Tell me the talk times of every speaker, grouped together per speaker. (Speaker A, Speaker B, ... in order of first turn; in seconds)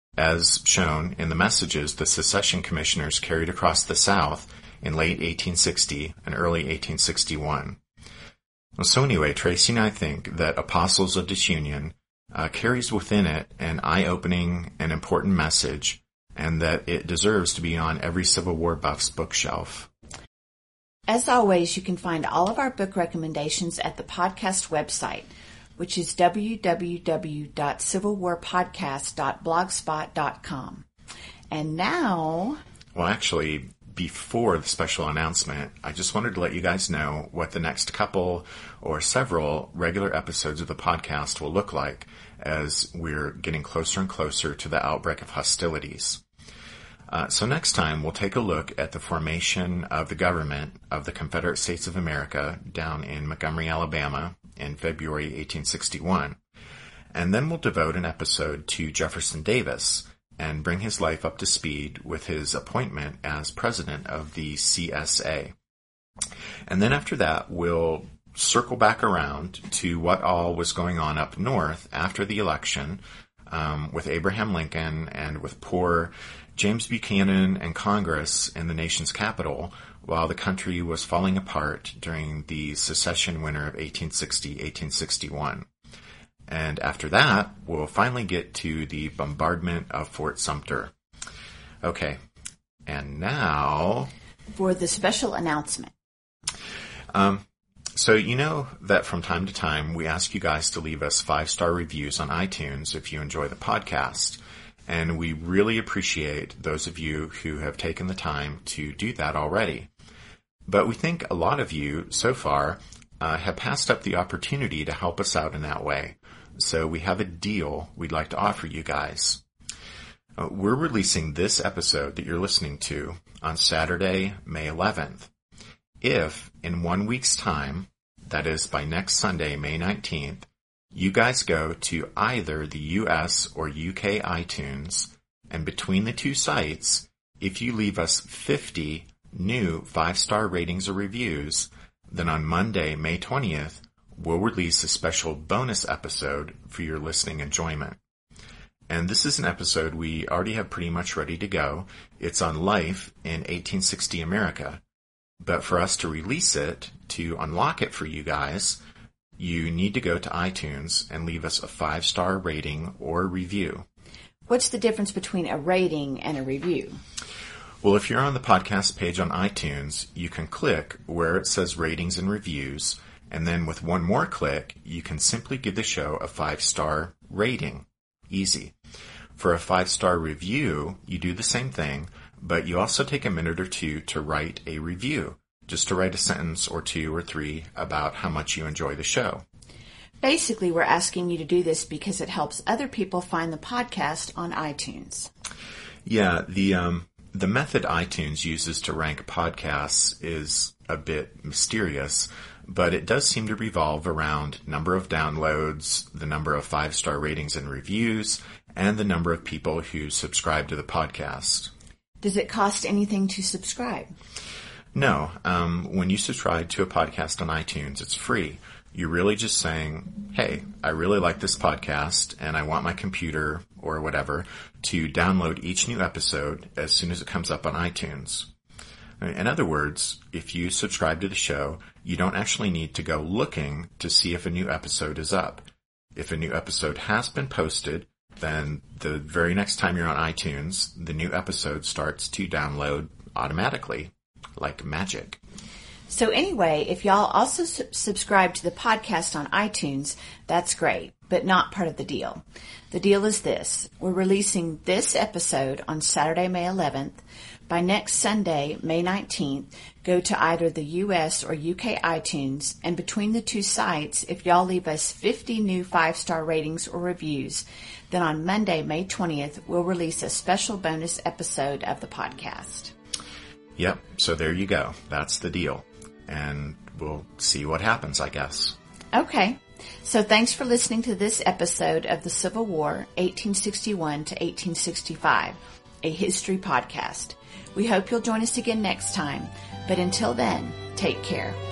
Speaker A: 0.2-7.8, 8.8-19.9, 32.9-46.2, 47.1-56.4, 57.1-65.5, 66.7-85.7, 86.5-90.9, 91.8-92.2, 92.8-94.1, 97.1-109.9, 110.7-119.4, 120.4-125.3, 126.0-148.0, 148.9-154.8, 155.4-158.8, 159.4-163.8, 167.8-178.7, 179.3-189.4, 196.0-211.7, 214.9-228.5, 229.2-245.4, 273.8-278.8
Speaker B: 21.1-30.8, 31.5-32.6, 94.5-95.9, 164.5-167.0, 190.2-195.3, 212.2-214.1, 246.1-272.9, 279.1-291.6